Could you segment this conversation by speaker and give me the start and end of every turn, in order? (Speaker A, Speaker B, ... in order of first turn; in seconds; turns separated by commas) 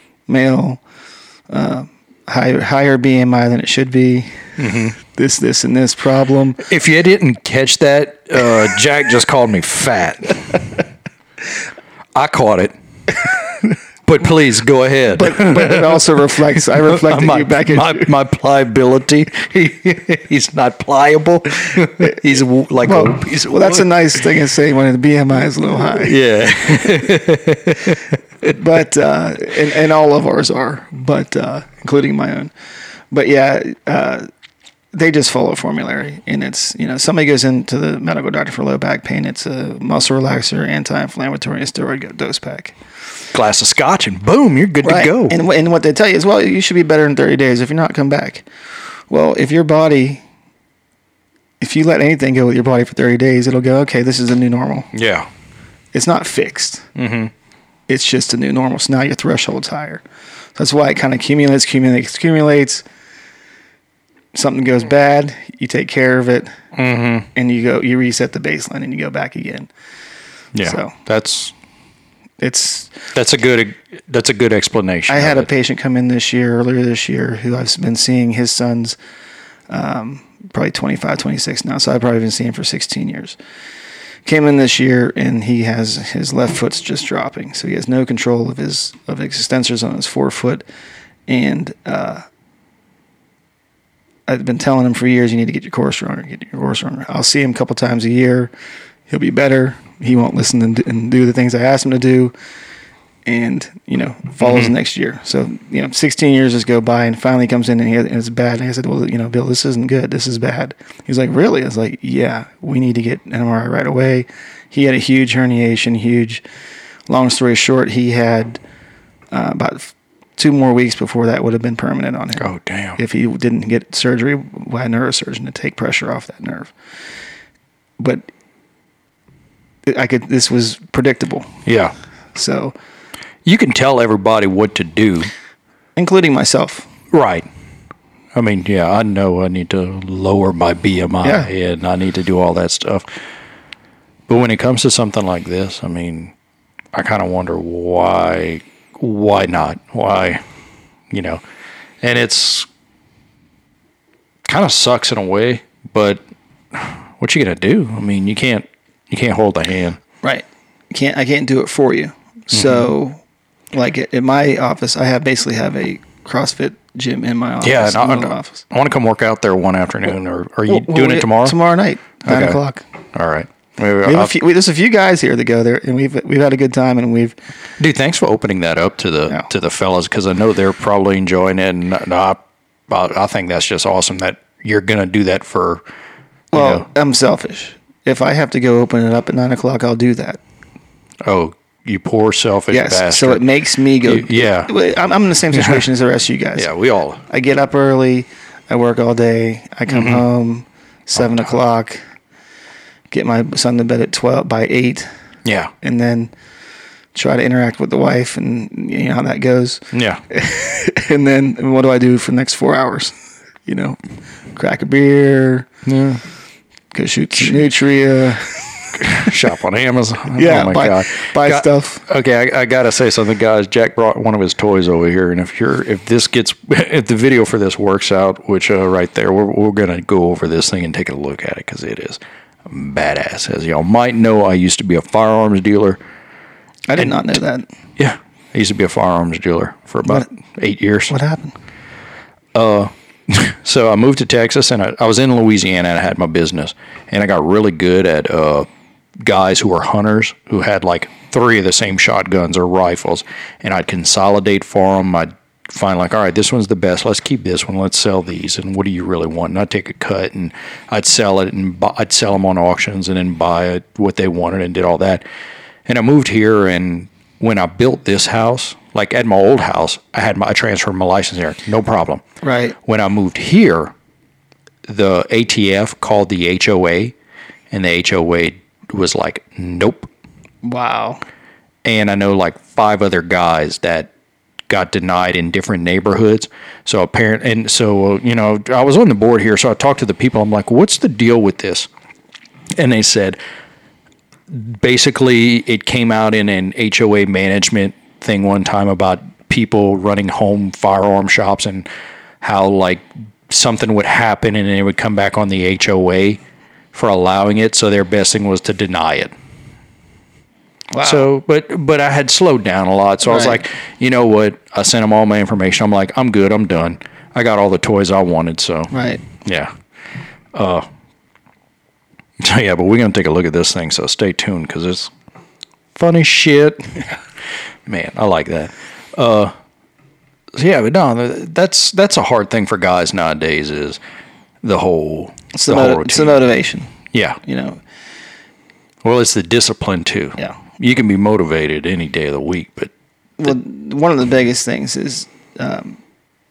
Speaker A: 0.3-0.8, Speaker A: 1.5-6.6, Speaker B: 4.6-5.0, Speaker B: 6.6-10.8, Speaker B: 12.1-13.4, Speaker B: 14.1-24.4, Speaker A: 15.1-18.1, Speaker A: 22.0-22.2, Speaker A: 22.8-26.2, Speaker B: 25.8-28.6, Speaker A: 28.4-32.5, Speaker A: 33.1-34.3, Speaker A: 34.9-42.8, Speaker B: 43.3-45.4, Speaker A: 44.8-48.5, Speaker A: 49.1-50.2, Speaker A: 51.6-54.9, Speaker B: 54.9-55.3, Speaker A: 55.9-56.9, Speaker B: 57.0-57.3, Speaker A: 57.9-60.0, Speaker A: 60.5-62.8, Speaker A: 64.3-66.5, Speaker B: 66.7-67.3, Speaker A: 67.3-69.7, Speaker B: 70.5-71.5, Speaker A: 70.6-70.9, Speaker A: 72.4-73.0, Speaker B: 73.1-75.5, Speaker A: 75.1-79.0, Speaker A: 79.7-83.4, Speaker A: 84.2-90.6, Speaker A: 91.3-92.2, Speaker A: 94.3-98.5, Speaker A: 99.1-102.3, Speaker A: 103.2-116.4, Speaker B: 104.4-104.7, Speaker A: 117.1-118.6, Speaker A: 119.3-126.7, Speaker B: 122.4-123.0, Speaker A: 128.0-128.3, Speaker A: 129.9-131.6, Speaker B: 131.7-131.9, Speaker A: 132.3-132.7, Speaker B: 133.4-135.3, Speaker A: 135.9-136.9, Speaker B: 137.1-137.5, Speaker B: 138.3-143.1, Speaker A: 141.2-141.5, Speaker B: 144.3-146.3, Speaker B: 146.9-150.4, Speaker B: 151.1-151.4, Speaker B: 152.0-152.7, Speaker B: 154.4-160.0, Speaker A: 160.2-163.2, Speaker B: 162.5-162.9, Speaker A: 163.7-168.6, Speaker B: 167.6-171.6, Speaker A: 170.7-172.8, Speaker B: 172.2-172.6, Speaker B: 173.1-174.3, Speaker A: 174.0-177.4, Speaker B: 177.8-185.8, Speaker A: 186.5-190.4, Speaker B: 186.5-186.9, Speaker B: 191.2-193.4, Speaker A: 192.7-196.7, Speaker B: 194.0-194.7, Speaker B: 195.5-195.8, Speaker B: 196.6-197.2, Speaker A: 197.3-202.0, Speaker B: 199.9-200.2, Speaker B: 201.2-201.5, Speaker A: 203.1-205.1, Speaker B: 205.4-205.7, Speaker A: 205.8-206.3, Speaker A: 207.1-213.1, Speaker B: 209.9-210.2, Speaker A: 213.6-214.0, Speaker A: 214.5-215.7, Speaker B: 215.8-216.2, Speaker A: 216.9-219.3, Speaker B: 217.4-217.6, Speaker B: 219.0-236.0, Speaker A: 220.3-222.0, Speaker A: 236.9-237.7, Speaker B: 237.0-237.4, Speaker B: 238.0-241.1, Speaker A: 241.1-241.5, Speaker B: 242.5-248.7, Speaker B: 249.2-265.2, Speaker B: 265.9-272.2, Speaker A: 272.4-272.8, Speaker B: 272.8-273.9, Speaker B: 274.9-277.1, Speaker B: 277.7-280.1, Speaker A: 280.6-281.2, Speaker B: 281.8-284.1, Speaker B: 284.7-291.9, Speaker B: 292.7-293.4, Speaker B: 294.5-301.9, Speaker B: 302.4-306.4, Speaker B: 306.9-309.3, Speaker A: 310.9-311.3, Speaker B: 311.0-319.7, Speaker A: 313.2-313.6, Speaker A: 318.9-319.2, Speaker B: 320.5-320.9, Speaker B: 322.4-325.1, Speaker B: 325.9-327.0, Speaker B: 327.9-329.5, Speaker B: 330.5-334.0, Speaker B: 334.6-336.4, Speaker A: 335.5-337.8, Speaker B: 337.1-337.4, Speaker B: 339.0-342.9, Speaker A: 343.4-346.0